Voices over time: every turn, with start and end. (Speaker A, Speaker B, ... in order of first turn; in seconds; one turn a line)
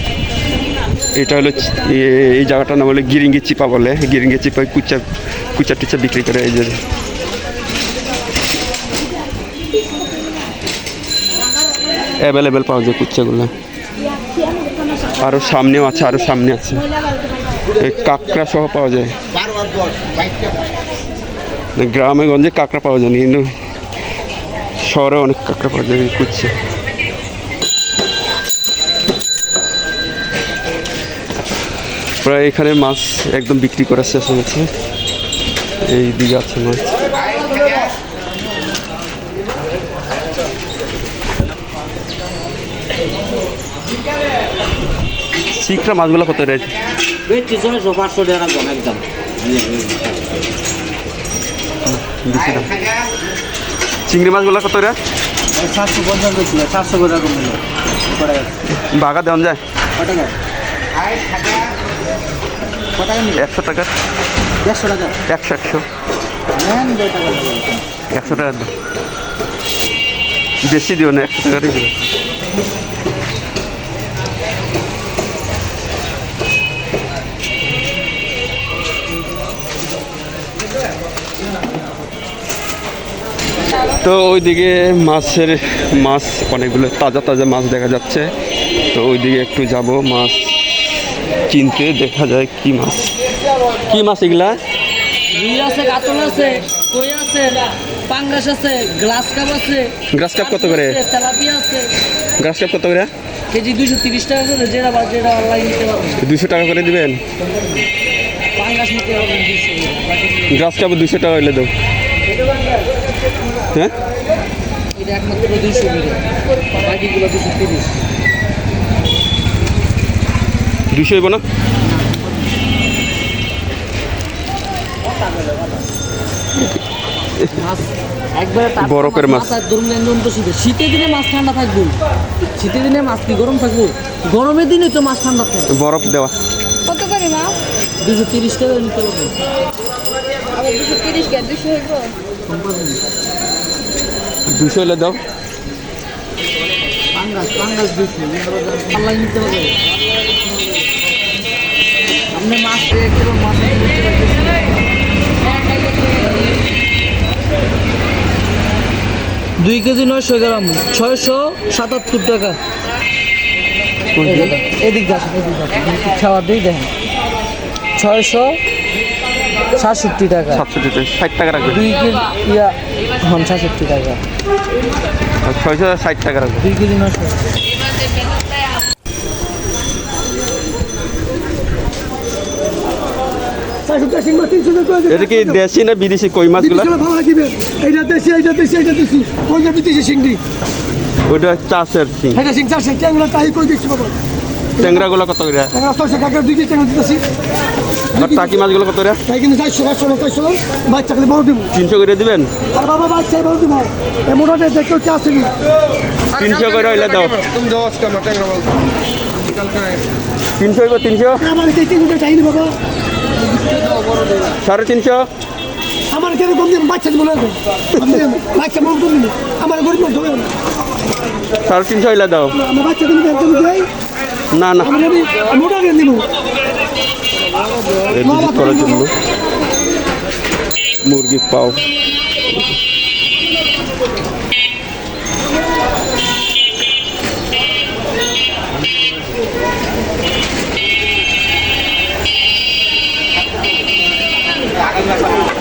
Speaker A: 1.1-5.0
Speaker A: 5.5-6.8
Speaker A: 12.2-13.5
Speaker B: 14.4-15.0
Speaker A: 15.2-16.9
Speaker A: 17.8-19.2
Speaker A: 21.8-23.5
Speaker A: 24.8-26.5
Speaker A: 32.2-34.7
Speaker A: 35.8-36.9
Speaker A: 45.5-46.7
Speaker C: 47.3-50.1
Speaker A: 51.9-52.8
Speaker A: 54.0-55.0
Speaker C: 55.5-57.6
Speaker C: 58.1-58.5
Speaker A: 58.7-59.6
Speaker C: 60.0-60.3
Speaker C: 61.2-61.5
Speaker C: 63.0-63.4
Speaker A: 63.3-63.9
Speaker C: 64.6-65.2
Speaker A: 65.2-65.8
Speaker C: 66.5-67.8
Speaker A: 68.1-68.7
Speaker A: 70.6-71.9
Speaker A: 83.9-88.3
Speaker A: 88.9-90.5
Speaker A: 91.5-93.1
Speaker A: 93.9-94.6
Speaker D: 95.3-101.9
Speaker A: 100.1-101.0
Speaker A: 102.4-103.1
Speaker D: 103.5-106.2
Speaker A: 106.2-107.2
Speaker D: 108.5-110.5
Speaker A: 110.5-111.7
Speaker D: 114.9-117.9
Speaker A: 120.9-121.4
Speaker D: 122.0-122.3
Speaker D: 127.5-135.7
Speaker A: 128.8-129.6
Speaker A: 135.7-136.3
Speaker B: 136.8-137.6
Speaker D: 138.0-139.3
Speaker B: 140.5-142.1
Speaker D: 142.5-143.0
Speaker A: 144.5-145.2
Speaker D: 147.1-149.8
Speaker D: 152.3-154.7
Speaker D: 159.6-162.6
Speaker A: 164.2-164.6
Speaker D: 164.2-166.9
Speaker D: 168.0-168.6
Speaker D: 169.7-170.6
Speaker A: 170.5-171.9
Speaker D: 171.7-174.2
Speaker A: 175.4-176.7
Speaker D: 176.6-177.4
Speaker E: 183.8-185.6
Speaker A: 185.1-186.9
Speaker E: 186.6-190.4
Speaker A: 191.3-192.4
Speaker E: 192.3-194.2
Speaker E: 194.8-195.1
Speaker A: 194.8-195.7
Speaker E: 195.7-197.2
Speaker E: 198.2-198.6
Speaker A: 198.2-199.2
Speaker E: 199.3-201.7
Speaker A: 201.7-202.5
Speaker E: 202.7-205.6
Speaker A: 206.3-207.6
Speaker B: 207.6-208.7
Speaker D: 207.7-208.4
Speaker B: 209.6-210.0
Speaker A: 210.6-211.4
Speaker E: 211.4-212.7
Speaker D: 213.9-214.4
Speaker A: 214.6-215.3
Speaker E: 216.1-220.5
Speaker A: 221.6-222.6
Speaker E: 222.5-223.9
Speaker A: 224.5-225.0
Speaker E: 224.8-226.3
Speaker E: 228.0-229.0
Speaker A: 228.1-229.1
Speaker A: 231.0-231.8